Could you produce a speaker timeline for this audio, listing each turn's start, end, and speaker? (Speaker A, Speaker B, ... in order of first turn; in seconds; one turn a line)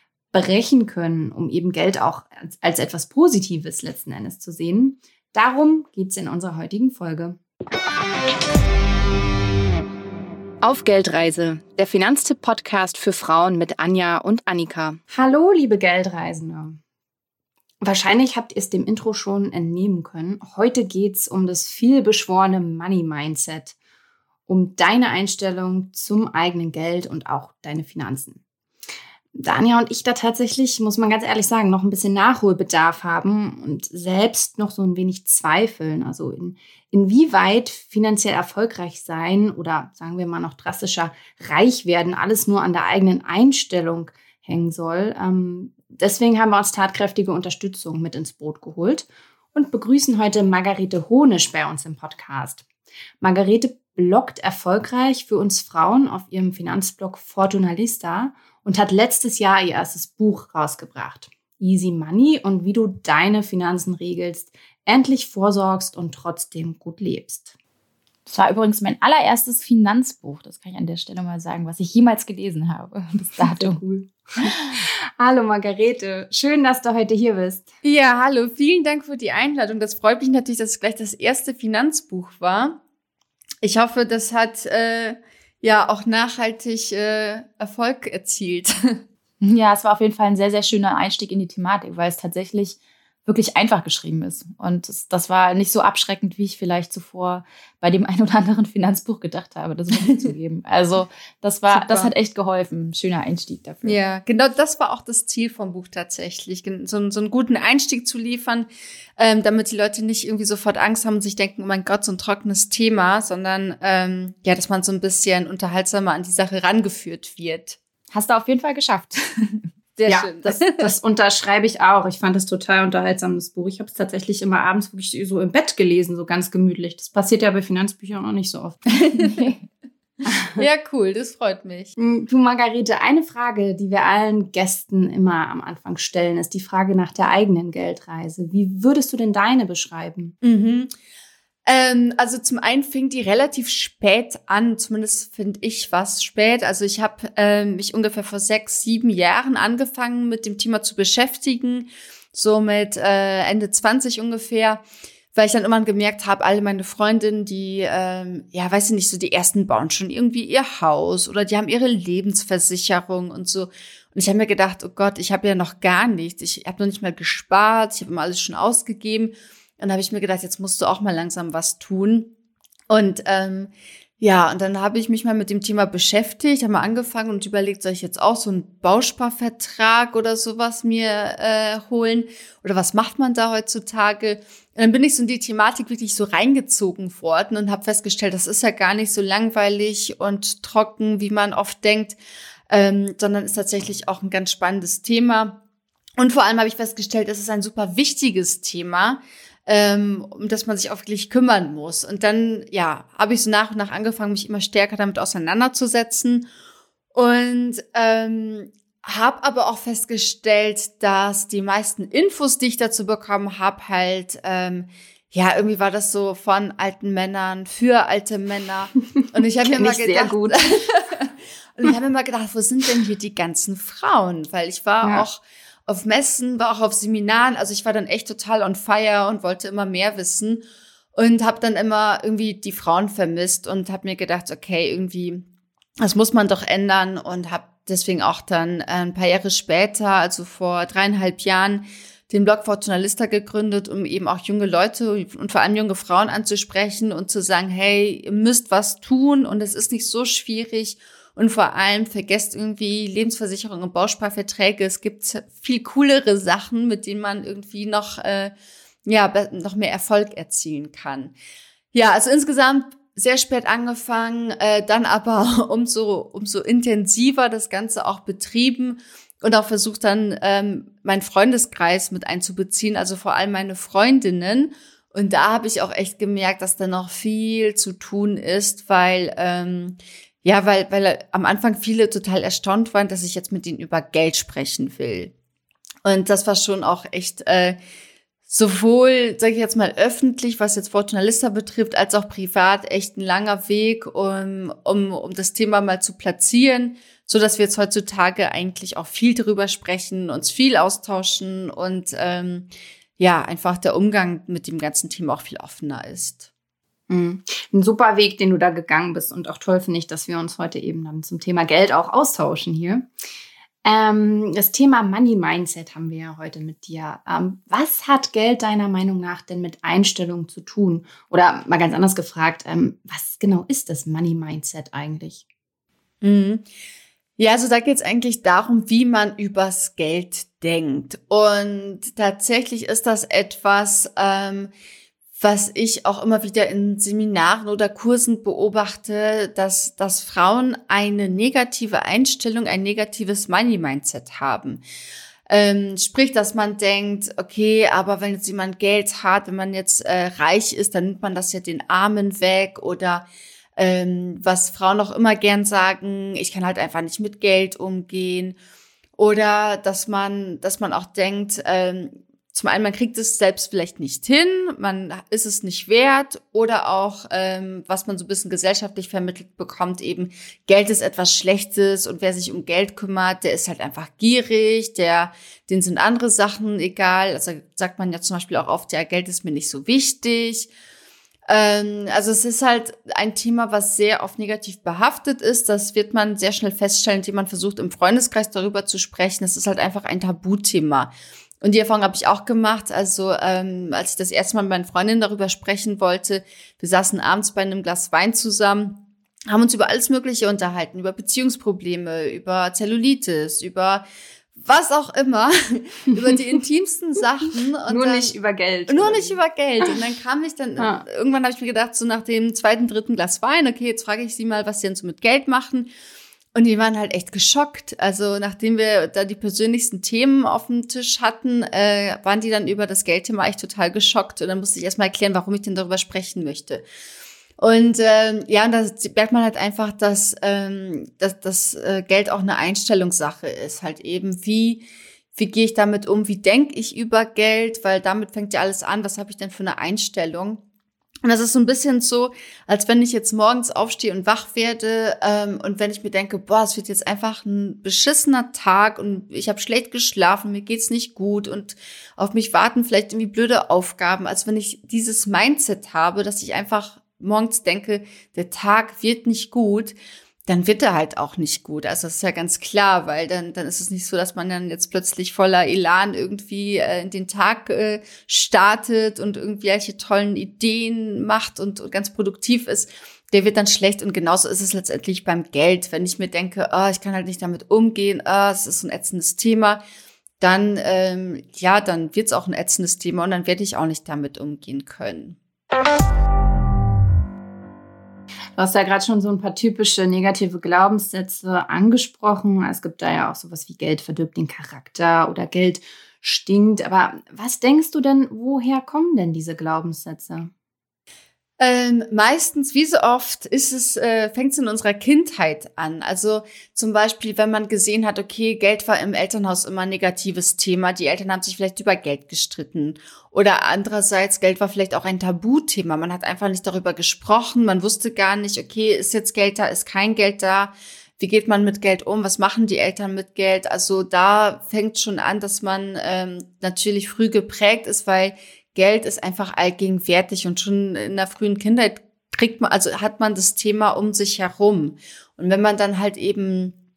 Speaker A: 0.3-7.4
Speaker A: 10.6-16.8
Speaker A: 17.8-23.8
Speaker A: 24.5-28.4
Speaker A: 29.4-52.6
Speaker A: 53.2-67.5
Speaker B: 68.3-73.8
Speaker A: 73.4-77.7
Speaker B: 74.4-74.8
Speaker C: 77.8-82.8
Speaker C: 83.6-89.0
Speaker B: 89.4-104.0
Speaker C: 100.0-100.3
Speaker C: 101.7-102.1
Speaker C: 103.8-117.8
Speaker B: 118.1-119.6
Speaker C: 120.0-120.9
Speaker A: 120.1-128.9
Speaker B: 129.1-129.7
Speaker C: 129.1-129.4
Speaker A: 130.3-130.7
Speaker C: 130.6-131.9
Speaker A: 132.0-140.3
Speaker C: 140.4-140.9
Speaker C: 141.7-154.8
Speaker C: 155.3-172.3
Speaker C: 172.9-192.2
Speaker C: 192.7-195.6
Speaker C: 196.2-206.5
Speaker C: 207.1-230.6
Speaker A: 219.6-220.7
Speaker C: 231.2-235.5
Speaker C: 236.0-258.5
Speaker C: 259.1-261.4
Speaker C: 261.9-285.3
Speaker C: 286.1-287.8
Speaker C: 288.5-306.5
Speaker A: 307.1-313.1
Speaker A: 313.8-325.4
Speaker C: 326.2-326.6
Speaker C: 327.4-334.7
Speaker C: 335.4-344.8
Speaker C: 345.5-358.6
Speaker C: 359.2-380.7
Speaker C: 381.5-391.1
Speaker C: 391.6-404.1
Speaker C: 404.6-408.3
Speaker A: 407.9-409.9
Speaker C: 408.9-415.9
Speaker A: 410.8-411.0
Speaker C: 416.6-426.8
Speaker C: 427.6-434.9
Speaker C: 435.4-440.6
Speaker C: 441.2-460.0
Speaker C: 460.5-479.8
Speaker C: 480.4-485.4
Speaker A: 488.6-500.5
Speaker C: 501.6-536.8